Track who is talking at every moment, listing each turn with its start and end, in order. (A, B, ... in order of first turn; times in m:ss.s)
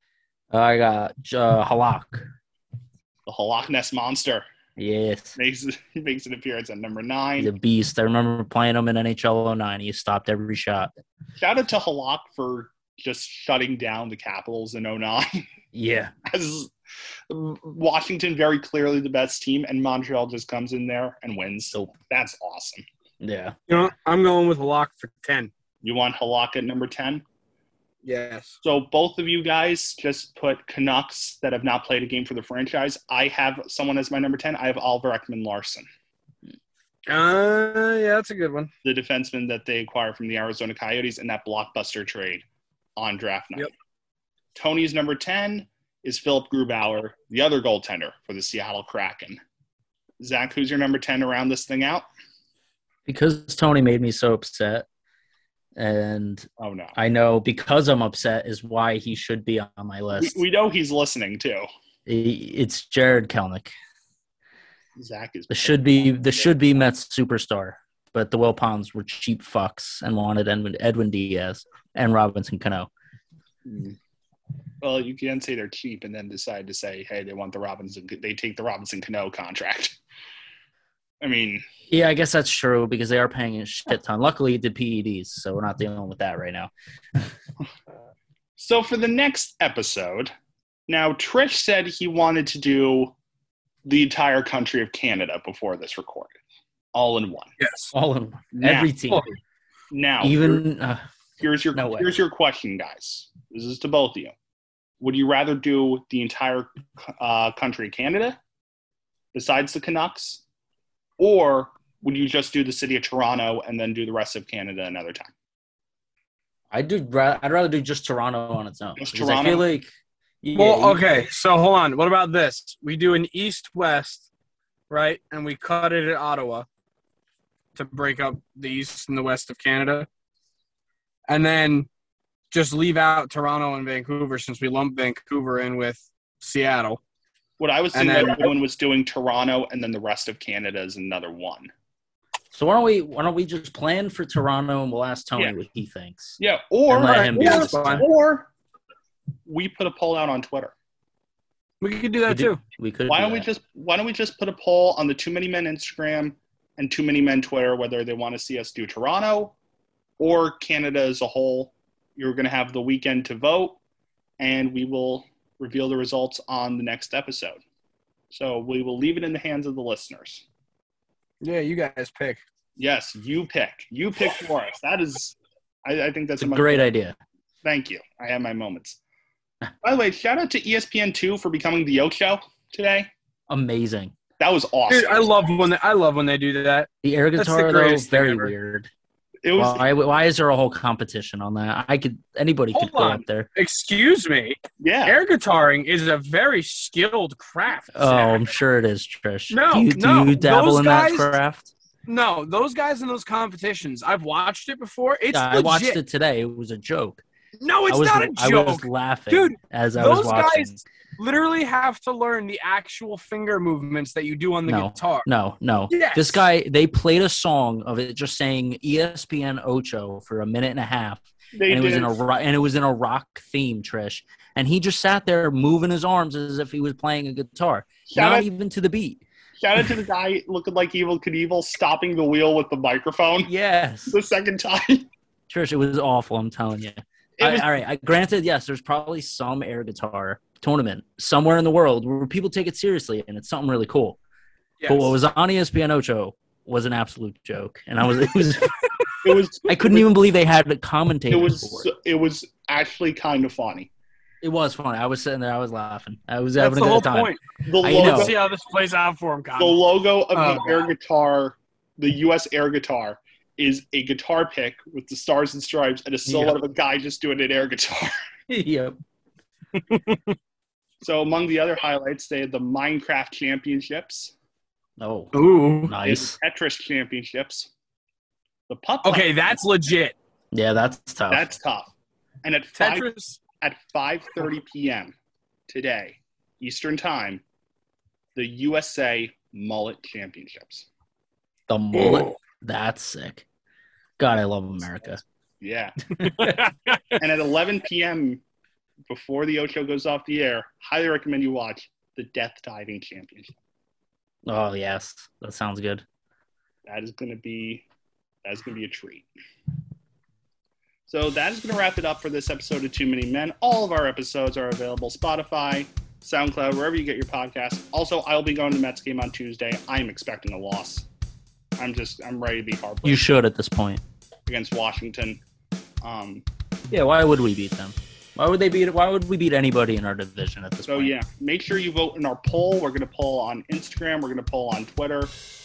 0:00.5-0:02.2 A
0:03.3-0:04.4 B
0:04.8-0:05.4 A
0:05.4-0:07.5 B
0:07.4-0:10.9 A
0:11.4-0:15.4 B
0:15.7-0:16.1 A
0:16.3-0:16.7 B
0:17.3-0:22.8 B
0:23.2-0:23.6 A
0:23.7-0:25.5 C
0:25.8-0:27.2 B
0:28.0-0:28.6 C
0:28.6-0:35.9 B
0:37.1-0:38.7 C
0:38.8-0:42.4 B
0:43.0-0:43.7 B
0:44.5-0:49.4 B
0:50.2-0:52.1 B
0:53.1-0:54.9 A
0:55.8-1:00.4 A
0:56.6-0:57.0 B
1:00.2-1:01.6 B
1:02.0-1:03.7 A
1:05.0-1:06.5 B
1:05.5-1:12.9 A
1:13.6-1:14.0 B
1:14.8-1:20.0 B
1:21.2-1:21.6 B
1:21.9-1:27.3 A
1:28.6-1:30.3 B
1:30.9-1:33.1 B
1:33.8-1:36.4 B
1:36.9-1:37.5 B
1:37.6-1:37.9 C
1:37.9-1:39.2 A
1:38.5-1:38.9 B
1:39.9-1:40.6 B
1:40.2-1:41.0 A
1:41.4-1:44.3 B
1:41.7-1:42.2 A
1:45.0-1:48.4 B
1:49.3-1:50.4 B
1:51.2-1:55.3 B
1:56.7-1:59.9 A
1:59.0-1:59.6 B
2:00.4-2:01.0 A
2:00.5-2:04.2 C
2:04.9-2:06.7 C
2:07.7-2:10.1 C
2:11.3-2:11.9 C
2:12.5-2:17.0 C
2:17.6-2:21.7 B
2:17.9-2:18.5 C
2:22.5-2:28.1 A
2:26.4-2:28.5 B
2:27.0-2:28.0 C
2:29.5-2:30.7 B
2:31.8-2:32.6 C
2:32.3-2:33.5 A
2:33.1-2:39.5 B
2:40.2-2:43.8 B
2:44.4-2:47.6 B
2:48.3-2:50.4 B
2:51.4-2:52.4 C
2:52.8-2:56.8 B
2:56.4-2:57.2 A
2:57.6-2:59.0 B
2:59.8-3:03.1 B
3:03.5-3:04.1 A
3:04.4-3:05.3 B
3:04.9-3:08.5 C
3:07.0-3:08.9 A
3:09.4-3:09.9 B
3:09.6-3:13.5 A
3:12.7-3:18.5 C
3:14.8-3:15.2 B
3:17.9-3:21.7 A
3:19.5-3:21.4 C
3:22.1-3:26.0 C
3:25.3-3:27.2 A
3:27.6-3:35.3 C
3:27.9-3:30.8 A
3:34.7-3:49.2 A
3:35.9-3:36.4 C
3:41.5-3:42.2 B
3:48.1-3:48.5 B
3:49.6-3:53.5 B
3:53.4-3:54.2 A
3:54.1-3:55.1 B
3:55.5-4:04.2 A
3:57.4-3:57.7 B
4:04.8-4:05.1 C
4:04.9-4:08.8 A
4:09.2-4:10.1 B
4:09.6-4:11.9 A
4:11.3-4:13.9 B
4:14.4-4:18.4 A
4:16.6-4:19.8 C
4:17.6-4:18.4 B
4:19.6-4:28.1 B
4:20.3-4:20.8 C
4:26.3-4:26.6 A
4:28.5-4:29.0 A
4:29.9-4:30.3 C
4:31.0-4:34.3 B
4:35.0-4:35.3 A
4:35.3-4:36.0 C
4:35.8-4:36.4 A
4:36.0-4:37.7 B
4:38.7-4:39.6 B
4:39.0-4:40.2 C
4:40.5-4:41.6 A
4:41.3-4:41.9 B
4:42.4-4:45.1 B
4:42.7-4:43.4 C
4:45.7-4:47.4 B
4:48.4-4:50.9 B
4:51.7-4:53.4 A
4:52.0-4:52.3 C
4:54.2-4:55.2 A
4:55.6-4:56.0 B
4:56.2-4:56.6 A
4:56.2-4:57.2 C
4:57.2-4:58.4 B
4:59.1-5:03.6 B
5:04.4-5:06.0 A
5:06.9-5:07.8 B
5:08.4-5:09.3 B
5:11.1-5:21.1 B
5:21.8-5:23.2 B
5:23.0-5:24.0 A
5:24.4-5:25.4 B
5:26.0-5:26.4 B
5:26.9-5:31.1 A
5:30.9-5:35.3 B